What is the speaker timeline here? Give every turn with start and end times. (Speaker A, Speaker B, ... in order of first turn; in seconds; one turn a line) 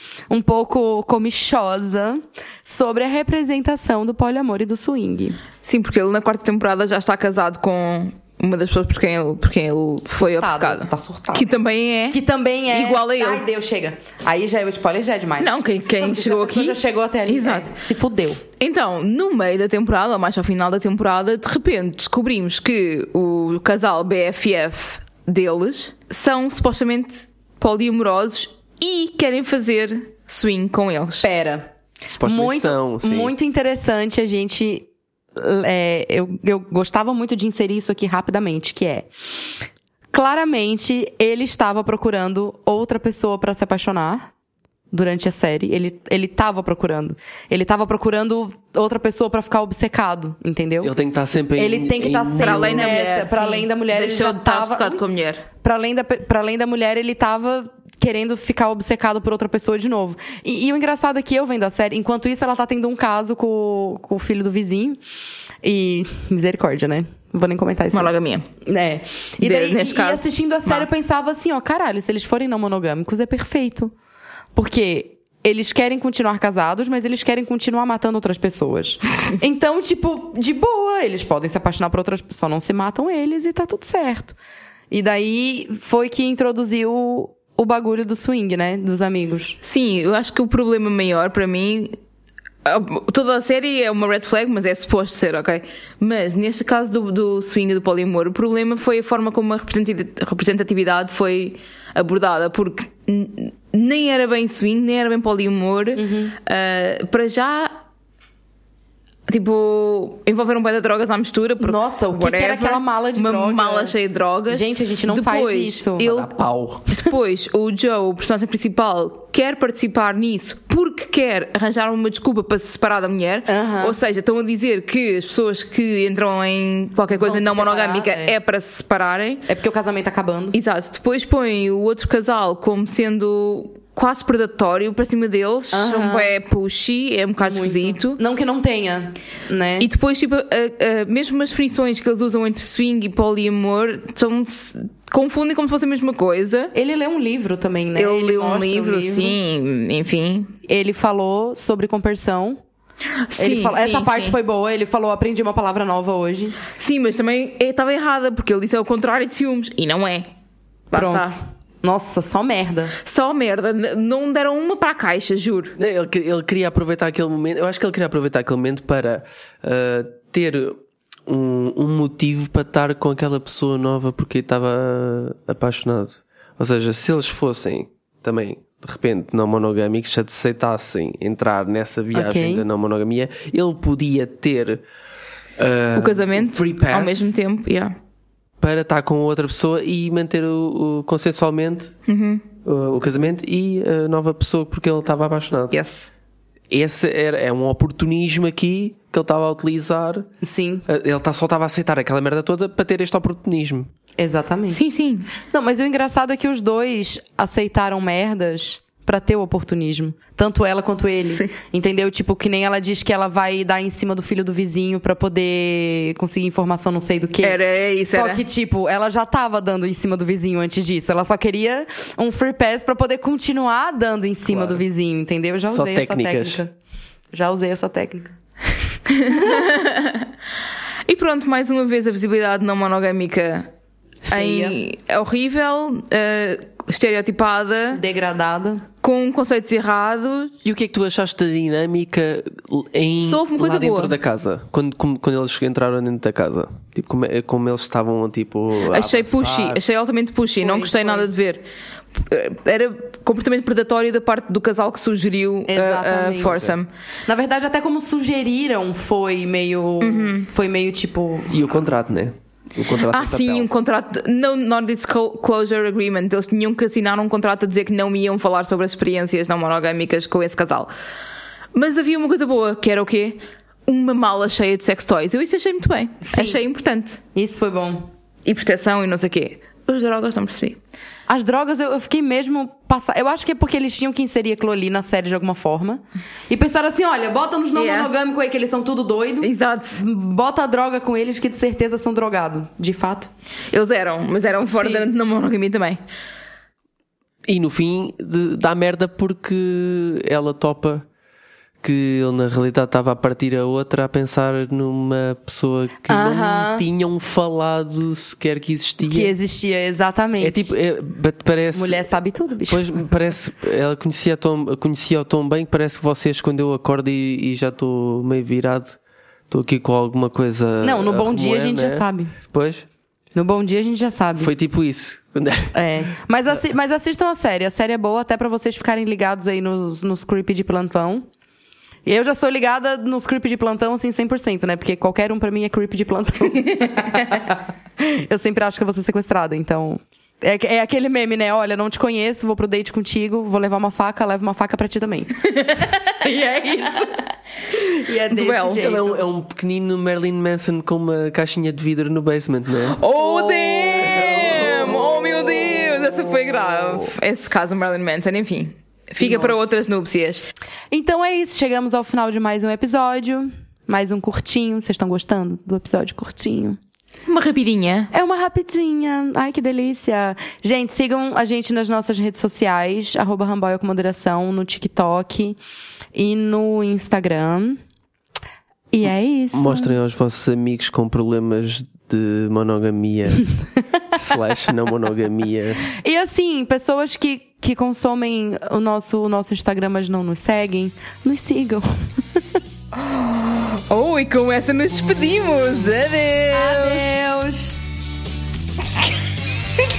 Speaker A: 0.3-5.4
Speaker B: 5.6-13.4
Speaker A: 10.1-11.6
Speaker A: 12.1-18.4
Speaker B: 15.4-17.8
Speaker B: 18.6-31.3
Speaker A: 31.2-31.7
Speaker C: 32.1-33.3
Speaker A: 32.2-39.5
Speaker A: 40.1-44.3
Speaker A: 44.9-50.9
Speaker C: 50.8-53.0
Speaker A: 51.5-55.0
Speaker B: 52.4-55.4
Speaker A: 55.6-65.0
Speaker A: 65.6-68.1
Speaker B: 67.9-68.5
Speaker A: 68.6-73.9
Speaker B: 69.4-70.9
Speaker A: 74.5-84.4
Speaker A: 84.9-89.6
Speaker B: 89.6-91.9
Speaker B: 92.6-107.8
Speaker A: 106.0-106.3
Speaker B: 109.3-116.3
Speaker A: 111.6-113.9
Speaker A: 114.5-116.2
Speaker C: 116.1-116.8
Speaker B: 116.8-129.4
Speaker A: 123.5-124.0
Speaker A: 127.1-128.3
Speaker A: 129.4-130.6
Speaker B: 130.5-138.2
Speaker A: 135.7-136.3
Speaker A: 137.4-139.9
Speaker B: 139.8-146.7
Speaker A: 146.7-149.4
Speaker B: 147.9-150.5
Speaker A: 150.7-152.6
Speaker B: 153.3-154.3
Speaker A: 153.4-156.6
Speaker B: 156.8-160.3
Speaker B: 160.9-161.4
Speaker A: 160.9-162.9
Speaker B: 163.0-165.8
Speaker C: 165.8-184.8
Speaker A: 182.1-182.6
Speaker C: 185.6-187.3
Speaker B: 185.9-187.9
Speaker C: 188.6-191.9
Speaker B: 192.1-192.4
Speaker C: 192.6-195.8
Speaker B: 195.7-196.1
Speaker C: 196.7-200.3
Speaker A: 200.4-200.8
Speaker C: 200.9-203.9
Speaker A: 204.2-204.8
Speaker B: 204.7-205.3
Speaker A: 205.5-217.6
Speaker B: 217.4-218.4
Speaker A: 218.1-226.7
Speaker C: 224.5-224.8
Speaker C: 225.7-226.6
Speaker A: 227.3-228.3
Speaker B: 229.1-230.3
Speaker A: 229.2-229.6
Speaker B: 231.1-233.7
Speaker A: 234.3-234.8
Speaker B: 234.3-238.0
Speaker A: 237.9-238.8
Speaker B: 239.0-240.5
Speaker C: 240.6-249.8
Speaker B: 243.2-244.2
Speaker B: 248.9-256.9
Speaker A: 250.6-251.3
Speaker A: 255.7-256.7
Speaker A: 257.3-261.6
Speaker B: 260.0-260.5
Speaker C: 261.5-263.7
Speaker B: 263.0-270.9
Speaker B: 271.7-277.2
Speaker A: 276.2-276.6
Speaker A: 277.3-278.1
Speaker B: 278.4-280.8
Speaker A: 281.3-293.3
Speaker B: 287.7-288.1
Speaker B: 289.4-290.0
Speaker B: 293.7-296.0
Speaker A: 294.8-295.1
Speaker C: 297.5-301.1
Speaker C: 301.8-309.3
Speaker A: 306.1-306.8
Speaker A: 309.1-310.7
Speaker C: 310.4-312.1
Speaker A: 311.7-312.9
Speaker C: 312.7-319.0
Speaker C: 319.5-322.9
Speaker A: 320.8-322.4
Speaker A: 323.3-324.5
Speaker C: 324.4-325.7
Speaker A: 325.7-331.2
Speaker A: 332.1-345.3
Speaker B: 345.5-346.1
Speaker A: 346.1-347.2
Speaker A: 347.9-349.2
Speaker B: 348.3-348.9
Speaker C: 348.8-353.0
Speaker B: 352.9-360.5
Speaker A: 353.1-353.8
Speaker C: 353.8-355.1
Speaker A: 359.2-359.5
Speaker A: 360.9-366.8
Speaker B: 367.3-368.1
Speaker A: 368.1-375.6
Speaker A: 376.1-377.8
Speaker A: 378.9-379.9
Speaker C: 379.5-383.4
Speaker C: 384.1-385.9
Speaker A: 385.9-392.4
Speaker B: 393.0-397.1
Speaker A: 396.5-397.8